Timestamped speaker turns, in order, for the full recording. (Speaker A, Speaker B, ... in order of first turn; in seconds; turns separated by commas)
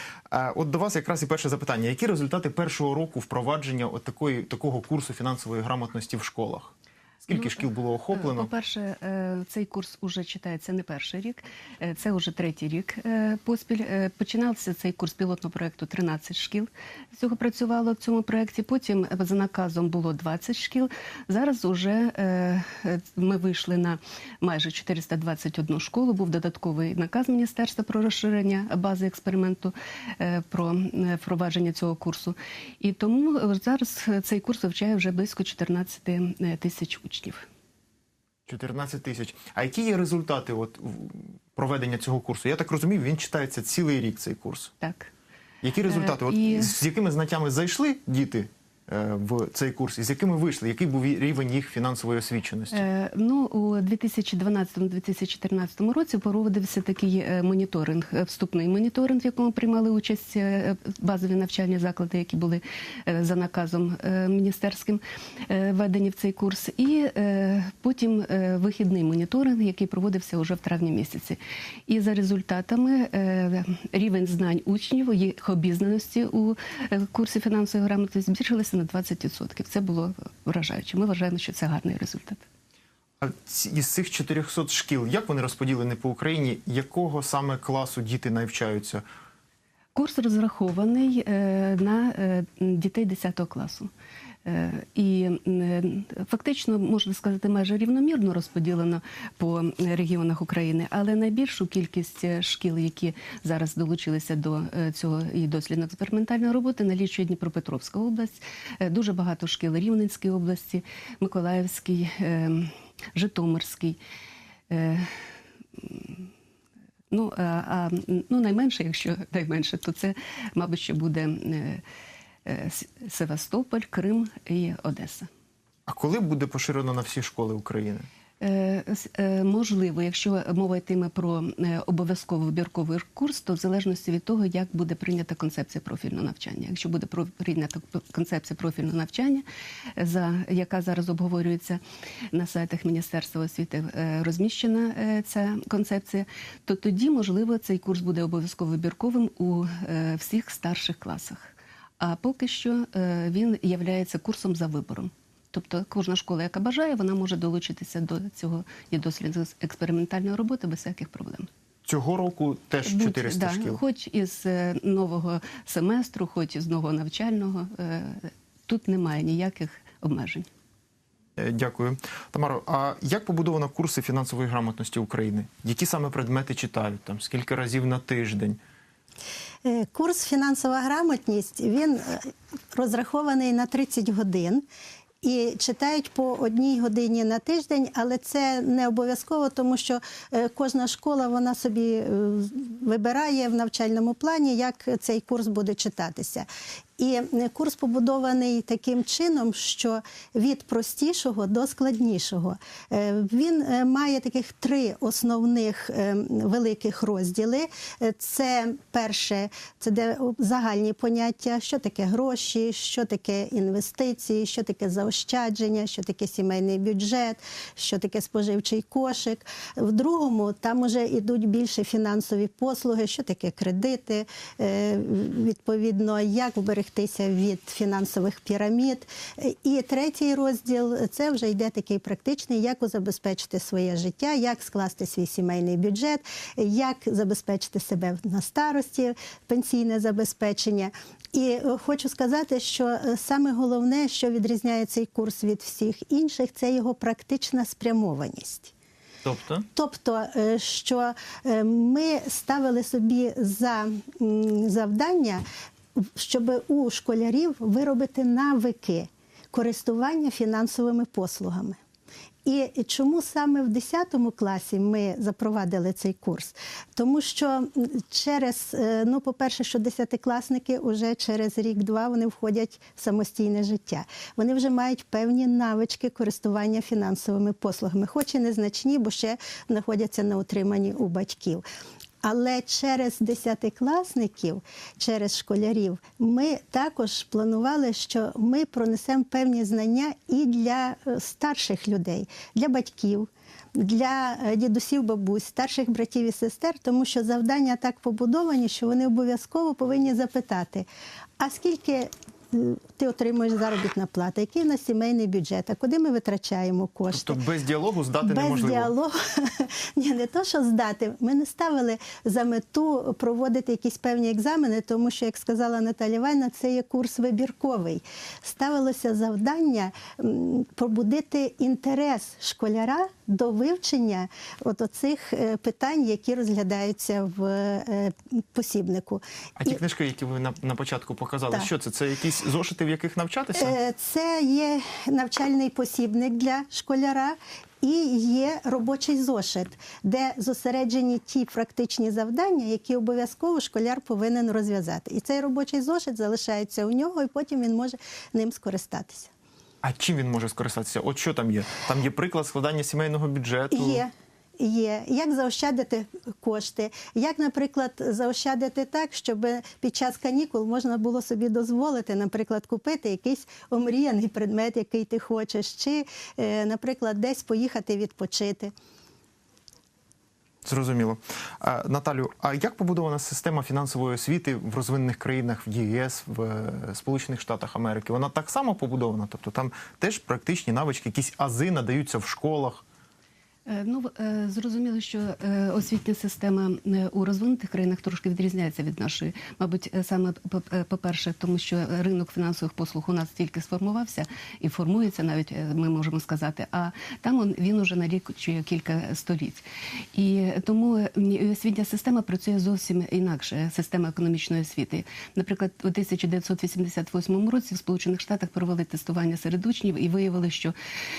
Speaker A: 0.3-8.5, Speaker B: 7.3-37.4, Speaker A: 38.5-44.7, Speaker B: 44.8-45.1, Speaker A: 45.6-52.8, Speaker B: 45.9-46.7, Speaker B: 52.7-82.4, Speaker A: 83.2-89.0, Speaker B: 89.9-93.9, Speaker B: 94.4-114.0, Speaker B: 114.7-115.2, Speaker B: 115.8-116.3, Speaker B: 117.1-121.8, Speaker B: 122.5-125.3, Speaker A: 125.9-128.1, Speaker B: 128.4-139.4, Speaker B: 140.0-141.8, Speaker B: 142.3-161.5, Speaker A: 161.8-163.8, Speaker B: 162.8-170.5, Speaker A: 171.3-178.6, Speaker C: 179.6-184.6, Speaker C: 185.2-196.5, Speaker C: 197.0-248.7, Speaker A: 249.2-249.7, Speaker C: 249.8-255.4, Speaker C: 255.9-261.8, Speaker C: 262.4-281.6, Speaker C: 282.2-300.9, Speaker C: 301.4-307.4, Speaker A: 307.1-308.9, Speaker C: 308.2-329.8, Speaker A: 329.6-333.7, Speaker C: 333.6-349.3, Speaker A: 349.8-354.0, Speaker C: 353.7-368.7, Speaker A: 370.6-382.8, Speaker B: 383.7-410.7